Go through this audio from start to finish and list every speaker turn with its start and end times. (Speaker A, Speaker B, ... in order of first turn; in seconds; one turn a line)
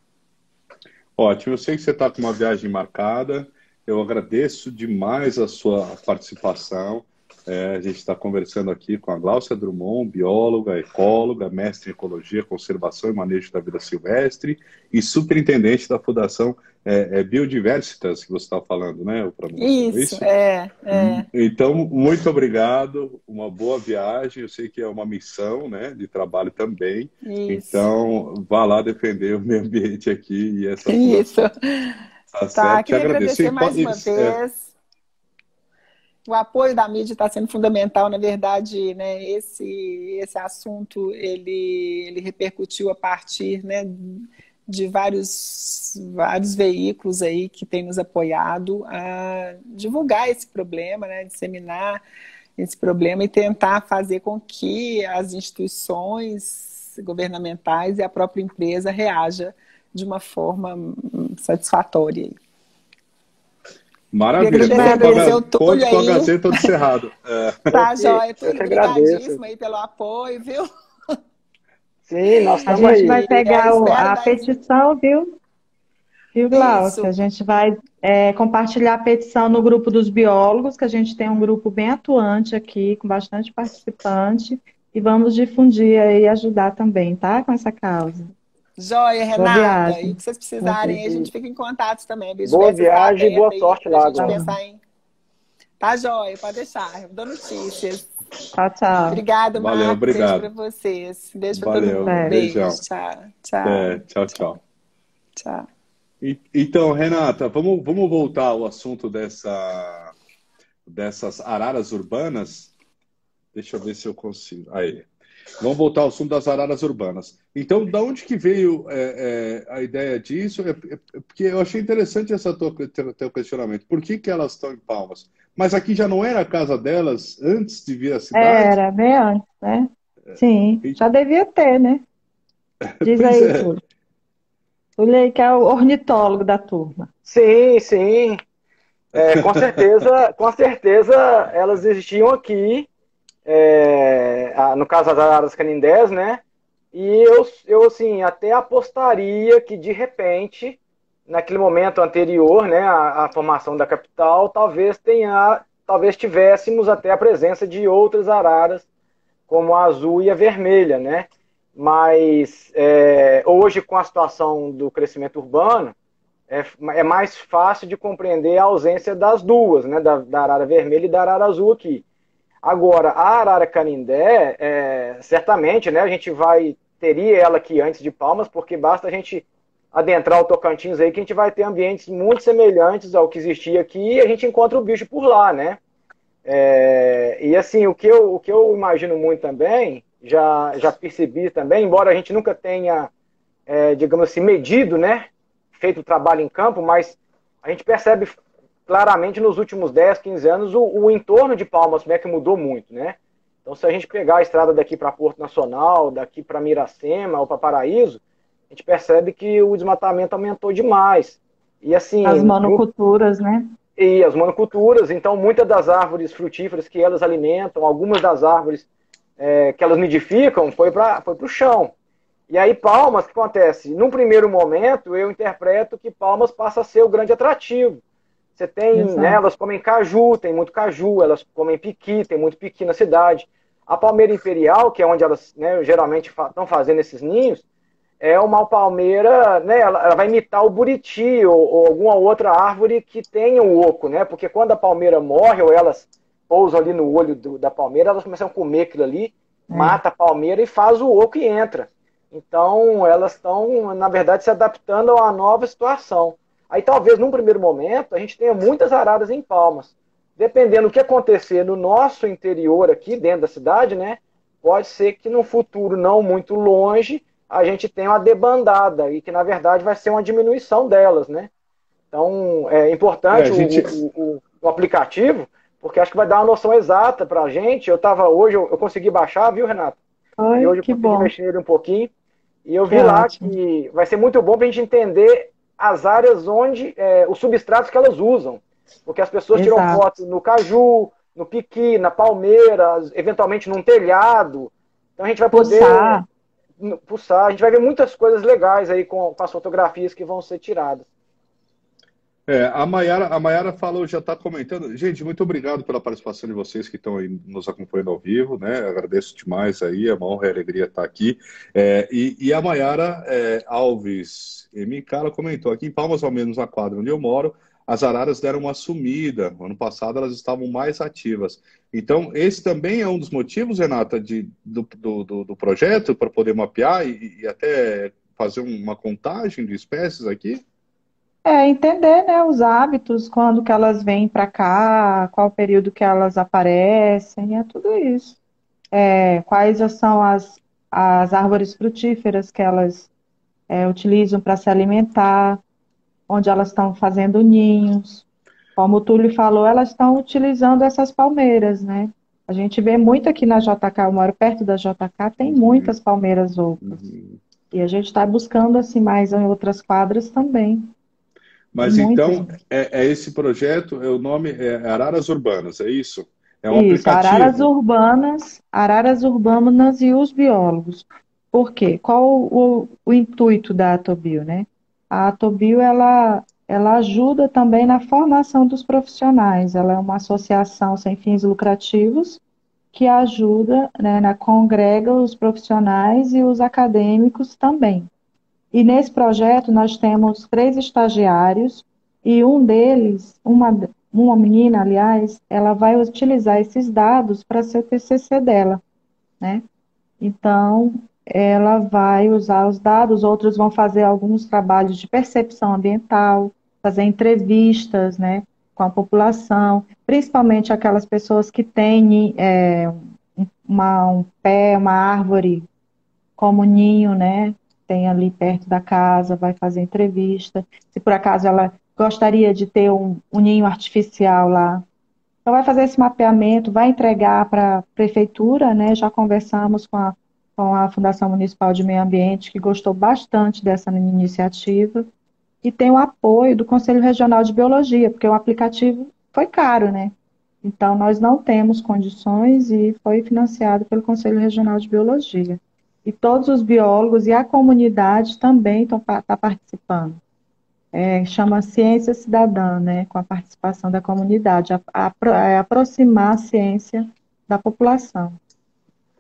Speaker A: 1.2-20.2
Speaker B: 19.6-21.2
Speaker A: 20.9-31.3
Speaker B: 27.2-27.9
Speaker B: 30.9-34.7
Speaker A: 32.4-34.4
Speaker B: 36.3-52.0
Speaker B: 52.6-62.4
Speaker A: 64.1-67.9
Speaker B: 64.4-66.4
Speaker C: 64.6-65.3
Speaker B: 67.7-70.7
Speaker D: 68.1-69.4
Speaker D: 72.1-73.2
Speaker B: 72.5-74.5
Speaker C: 72.7-75.3
Speaker C: 76.3-88.3
Speaker B: 76.5-77.1
Speaker B: 88.8-94.8
Speaker C: 89.4-91.0
Speaker D: 92.4-94.4
Speaker C: 94.2-94.6
Speaker B: 95.8-98.1
Speaker C: 98.5-99.2
Speaker B: 99.1-104.5
Speaker A: 99.5-100.5
Speaker A: 101.5-102.8
Speaker C: 102.0-102.4
Speaker A: 103.6-104.6
Speaker B: 105.4-105.7
Speaker A: 106.2-110.1
Speaker A: 110.9-112.7
Speaker A: 113.5-115.1
Speaker A: 115.6-128.8
Speaker C: 128.3-132.0
Speaker A: 133.0-133.7
Speaker C: 133.0-133.8
Speaker C: 135.0-137.1
Speaker D: 137.2-138.4
Speaker D: 139.2-142.9
Speaker A: 139.2-139.8
Speaker D: 143.5-146.4
Speaker D: 146.9-158.8
Speaker D: 159.5-165.9
Speaker D: 166.5-172.1
Speaker D: 172.6-185.8
Speaker D: 186.4-193.1
Speaker D: 193.7-212.8
Speaker C: 212.2-213.7
Speaker D: 214.0-218.9
Speaker D: 219.4-221.9
Speaker D: 222.5-228.0
Speaker D: 228.6-237.6
Speaker C: 228.9-229.4
Speaker D: 238.2-271.5
Speaker C: 249.7-250.0
Speaker D: 272.1-280.0
Speaker A: 273.3-273.9
Speaker C: 280.4-281.3
Speaker D: 280.6-282.1
Speaker D: 282.7-296.2
Speaker C: 282.9-283.5
Speaker C: 289.6-290.0
Speaker C: 295.5-296.2
Speaker D: 296.8-301.1
Speaker A: 302.5-330.6
Speaker C: 331.4-338.4
Speaker C: 338.9-343.1
Speaker C: 343.7-345.6
Speaker C: 346.3-348.2
Speaker C: 348.8-357.1
Speaker A: 355.4-355.9
Speaker A: 356.8-357.4
Speaker C: 357.7-360.9
Speaker A: 361.7-367.7
Speaker C: 361.8-362.6
Speaker C: 366.7-382.4
Speaker C: 382.9-388.1
Speaker C: 388.7-398.8
Speaker C: 400.2-415.7
Speaker C: 416.4-424.9
Speaker C: 425.4-435.1
Speaker C: 435.6-450.2
Speaker C: 450.9-458.4